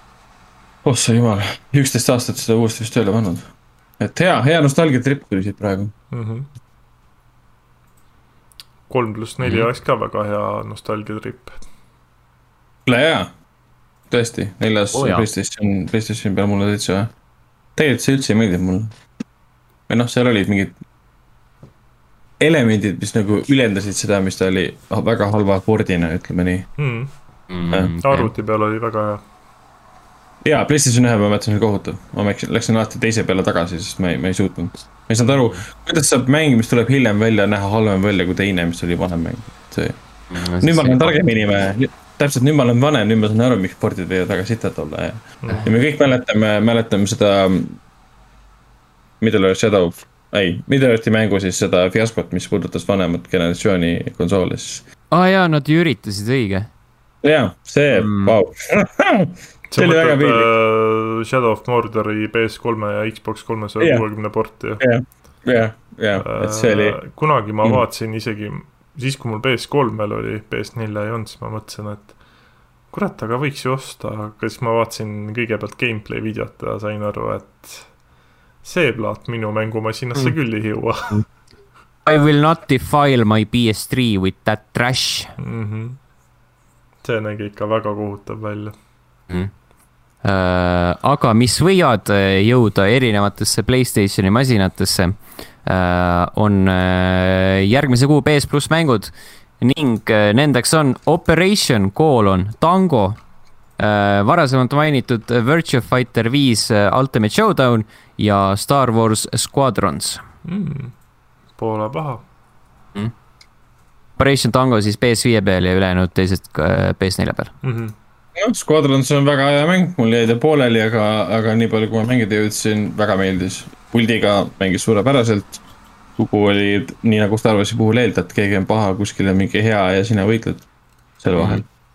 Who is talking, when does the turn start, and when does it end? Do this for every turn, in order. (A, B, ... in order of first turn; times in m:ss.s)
0:00.8-0:05.9 A
0:06.1-0:06.5 B
0:08.9-0:11.5 B
0:09.4-0:09.7 C
0:12.8-0:13.3 A
0:14.1-0:17.1 A
0:14.9-0:15.3 C
0:17.8-0:18.9 A
0:19.9-0:20.8 A
0:22.4-0:26.7 A
0:26.8-0:27.1 B
0:27.5-0:28.3 C
0:28.0-0:29.2 B
0:30.4-0:40.0 A
0:40.3-0:41.4 C
0:40.6-0:47.8 A
0:45.4-0:45.7 B
0:49.2-0:54.8 A
0:55.1-0:56.7 C
0:57.2-1:00.5 A
0:57.9-0:58.4 C
0:59.7-1:04.8 B
1:03.8-1:04.0 A
1:04.8-1:07.0 A
1:06.2-1:12.2 B
1:12.9-1:17.9 B
1:18.6-1:21.2 B
1:22.0-1:25.3 C
1:25.4-1:26.0 B
1:27.0-1:28.7 B
1:30.2-1:43.2 C
1:43.8-1:50.2 C
1:50.4-1:50.9 B
1:51.6-1:52.2 B
1:54.2-1:57.5 C
1:57.6-1:57.9 B
1:58.4-2:05.6 A
2:06.2-2:10.6 A
2:11.2-2:11.6 A
2:11.4-2:11.6 C